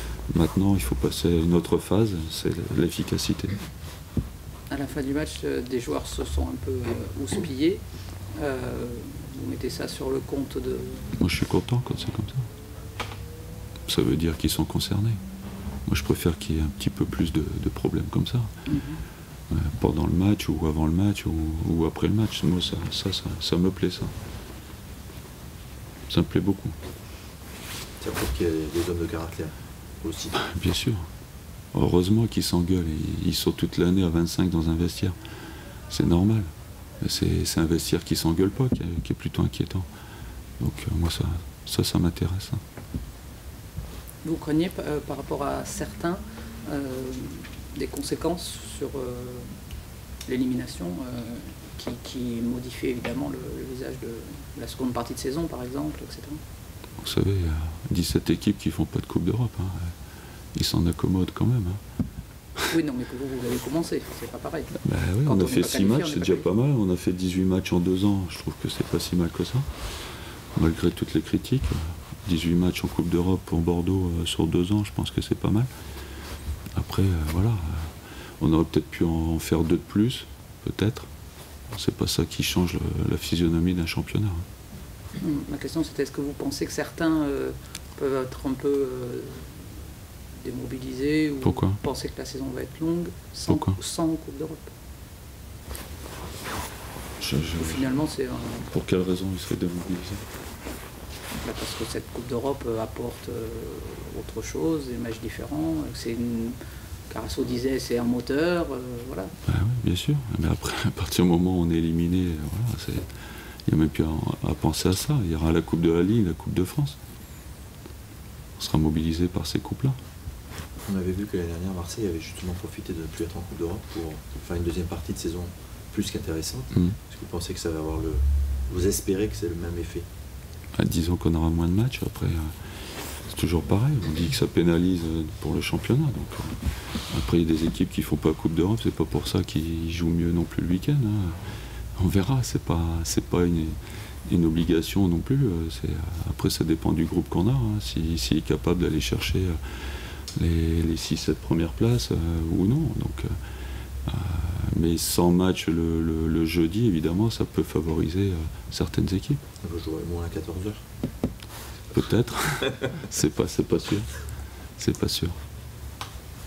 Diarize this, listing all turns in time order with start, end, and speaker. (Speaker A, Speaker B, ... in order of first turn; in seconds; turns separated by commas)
Speaker A: 0.3-3.6, Speaker B: 4.7-7.8, Speaker B: 8.3-11.1, Speaker A: 11.2-12.4, Speaker A: 13.9-15.2, Speaker A: 15.9-18.5, Speaker B: 18.7-19.0, Speaker A: 19.5-24.1, Speaker A: 26.1-26.8, Speaker C: 28.0-30.4, Speaker A: 30.4-31.1, Speaker A: 31.7-35.2, Speaker A: 35.9-36.5, Speaker A: 37.0-39.9, Speaker A: 40.6-42.6, Speaker B: 44.2-49.5, Speaker B: 50.3-56.4, Speaker A: 57.0-59.9, Speaker A: 60.5-61.8, Speaker B: 62.7-66.5, Speaker A: 64.8-69.7, Speaker A: 70.5-75.7, Speaker A: 76.8-81.1, Speaker A: 81.7-84.5, Speaker B: 85.2-89.7, Speaker B: 90.4-94.7, Speaker A: 91.4-91.8, Speaker A: 93.5-93.8, Speaker A: 97.2-98.0, Speaker B: 97.6-98.7, Speaker A: 98.7-100.2, Speaker B: 101.4-106.6, Speaker B: 107.1-109.3, Speaker A: 109.5-113.1, Speaker A: 113.7-117.0, Speaker A: 118.6-120.0, Speaker C: 120.9-130.1, Speaker A: 130.8-132.6, Speaker A: 133.2-141.4, Speaker A: 142.0-149.6, Speaker A: 150.4-153.3, Speaker A: 154.1-159.4, Speaker C: 159.6-160.8, Speaker A: 161.9-164.1, Speaker A: 164.8-165.4